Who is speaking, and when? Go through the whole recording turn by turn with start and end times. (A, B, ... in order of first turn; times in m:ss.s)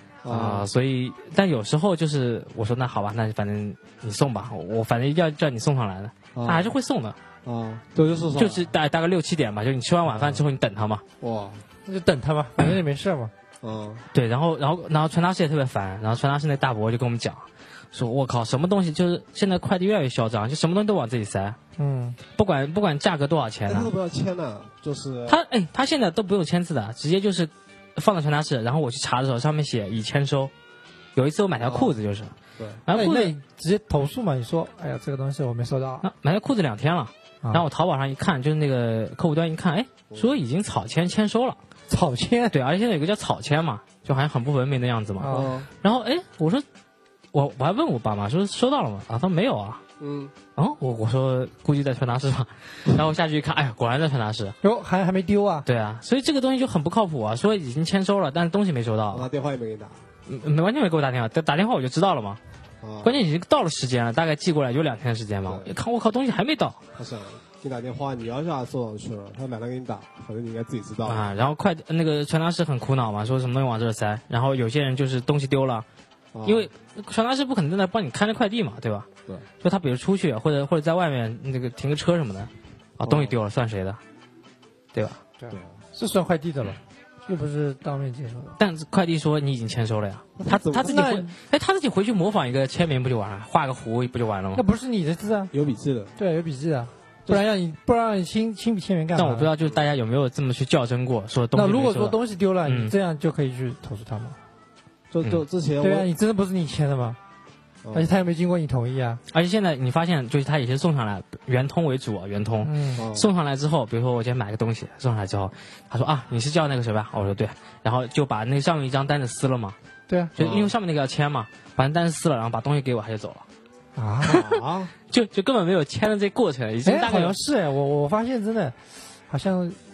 0:00.2-0:00.7 A
0:00.3-0:07.2 B
0:06.3-0:06.7 A
0:07.4-0:08.7 A
0:08.4-0:11.0 B
0:10.1-0:10.4 A
0:11.2-0:11.6 A
0:11.8-0:13.3 C
0:13.6-0:14.0 A
0:14.1-0:21.6 B
0:21.8-0:22.2 C
0:22.3-0:23.9 B
0:23.7-0:25.4 A
0:25.3-0:30.5 B
0:31.2-0:32.3 B
0:31.6-0:32.0 A
0:32.6-0:32.8 A
0:32.8-0:33.3 B
0:32.9-0:36.1 C
0:36.0-0:41.6 B
0:41.9-0:42.5 C
0:42.5-0:46.6 B
0:45.2-0:45.5 C
0:45.3-0:45.7 A
0:47.3-0:49.8 B
0:50.0-0:50.3 A
0:50.6-0:54.6 B
0:54.6-0:55.6 C
0:55.6-0:59.3 B
0:59.1-1:00.0 A
1:00.3-1:02.4 B
1:02.8-1:03.2 A
1:03.0-1:06.8 B
1:05.4-1:05.7 A
1:07.0-1:11.3 A
1:11.0-1:15.8 B
1:16.3-1:16.7 A
1:16.4-1:19.1 B
1:19.6-1:24.0 B
1:23.0-1:23.4 A
1:24.9-1:25.2 B
1:25.4-1:28.6 C
1:25.5-1:25.8 A
1:28.6-1:34.6 B
1:30.4-1:31.1 A
1:30.8-1:31.3 C
1:34.5-1:35.5 C
1:35.5-1:36.1 A
1:36.2-1:39.5 C
1:39.1-1:42.9 B
1:41.5-1:44.4 C
1:45.1-1:46.1 A
1:45.8-1:47.2 C
1:47.8-1:48.1 A
1:47.9-1:49.2 C
1:49.3-1:59.8 B
1:52.6-1:53.0 C
1:53.0-1:53.3 A
2:00.3-2:03.4 B
2:00.4-2:00.7 A
2:04.0-2:04.4 C
2:04.2-2:04.9 A
2:04.3-2:07.4 B
2:06.8-2:09.8 C